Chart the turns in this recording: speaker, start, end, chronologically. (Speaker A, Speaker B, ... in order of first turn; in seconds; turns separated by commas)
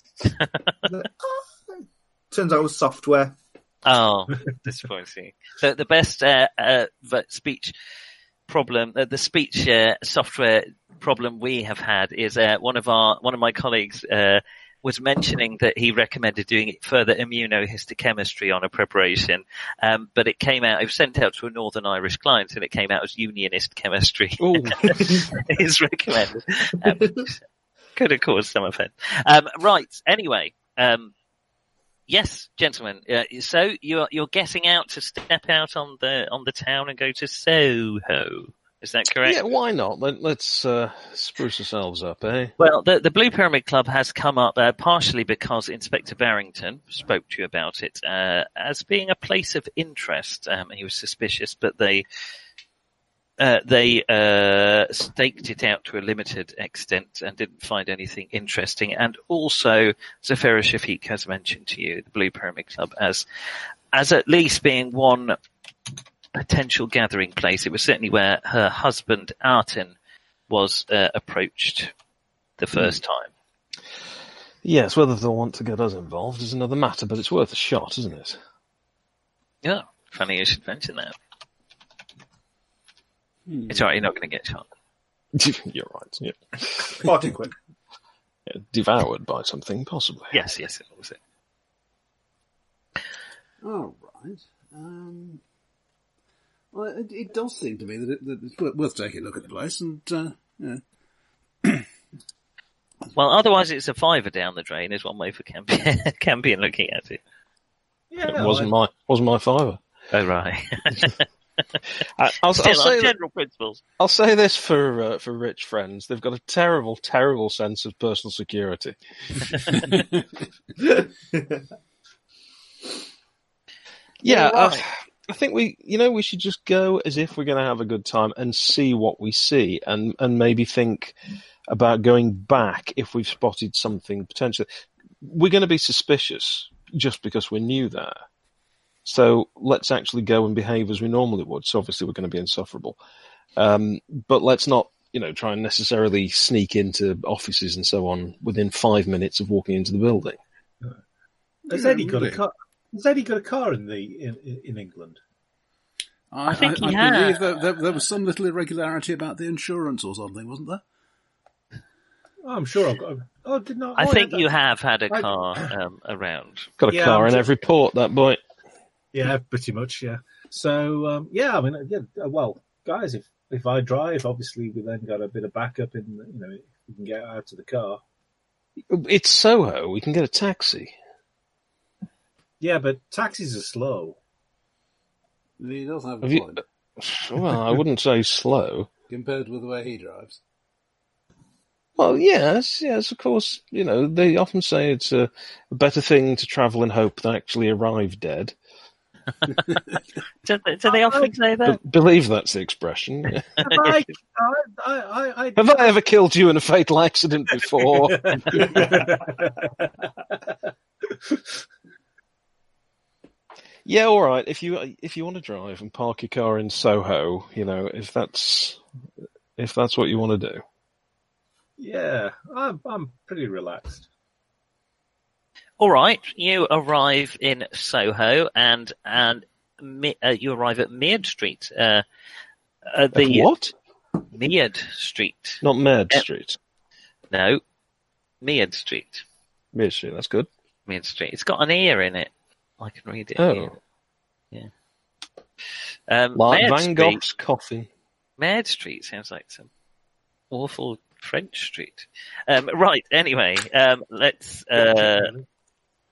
Speaker A: 0.5-0.7, Speaker B: 0.9-1.4, Speaker B: 2.3-3.4, Speaker A: 3.9-7.7, Speaker A: 8.5-27.4, Speaker C: 24.4-25.2, Speaker A: 28.0-31.1, Speaker A: 32.1-39.4, Speaker C: 39.2-42.5, Speaker A: 42.6-52.0, Speaker A: 53.4-63.2, Speaker A: 63.9-65.4, Speaker A: 66.3-70.0, Speaker A: 70.5-71.9, Speaker A: 72.6-73.3, Speaker C: 74.6-78.4, Speaker A: 79.6-81.2, Speaker D: 83.5-83.9, Speaker A: 83.7-84.7, Speaker C: 85.3-87.1, Speaker B: 87.0-87.5, Speaker C: 88.5-90.3, Speaker A: 90.3-91.2, Speaker D: 93.6-95.4, Speaker D: 96.7-100.8, Speaker A: 103.1-107.2, Speaker E: 108.1-108.7, Speaker C: 108.3-109.8, Speaker A: 110.1-111.2, Speaker C: 112.2-113.1, Speaker A: 112.5-113.8, Speaker C: 114.0-119.9, Speaker D: 119.9-120.2, Speaker C: 124.2-131.2, Speaker C: 131.7-134.7, Speaker C: 135.2-138.2, Speaker C: 139.1-143.0, Speaker C: 143.6-150.4, Speaker E: 151.7-155.2, Speaker D: 151.7-152.4, Speaker D: 156.3-160.8, Speaker A: 156.5-157.5, Speaker E: 162.4-164.5, Speaker A: 164.0-166.7, Speaker E: 165.1-165.7, Speaker C: 166.8-168.4, Speaker E: 166.9-167.4, Speaker E: 169.1-178.0, Speaker C: 178.9-180.9, Speaker E: 182.6-184.2, Speaker D: 185.6-186.6, Speaker C: 186.2-188.9, Speaker D: 189.1-190.4, Speaker C: 192.0-198.6, Speaker A: 200.4-201.8, Speaker E: 200.9-201.3, Speaker C: 201.7-203.5, Speaker E: 203.6-205.9, Speaker A: 203.6-204.1, Speaker C: 205.6-208.8, Speaker E: 208.0-209.9, Speaker E: 211.1-211.4, Speaker C: 213.8-218.8, Speaker C: 219.6-220.6, Speaker E: 221.8-224.1, Speaker A: 225.8-232.0, Speaker A: 232.9-233.5, Speaker C: 233.1-233.7, Speaker A: 234.3-236.2, Speaker C: 235.6-236.6, Speaker A: 237.3-237.6, Speaker A: 238.4-239.2, Speaker C: 239.7-240.5, Speaker A: 240.9-243.8, Speaker C: 243.4-243.7, Speaker A: 246.1-247.2, Speaker C: 246.3-247.9, Speaker A: 248.4-249.7, Speaker A: 250.5-255.3, Speaker E: 254.7-255.4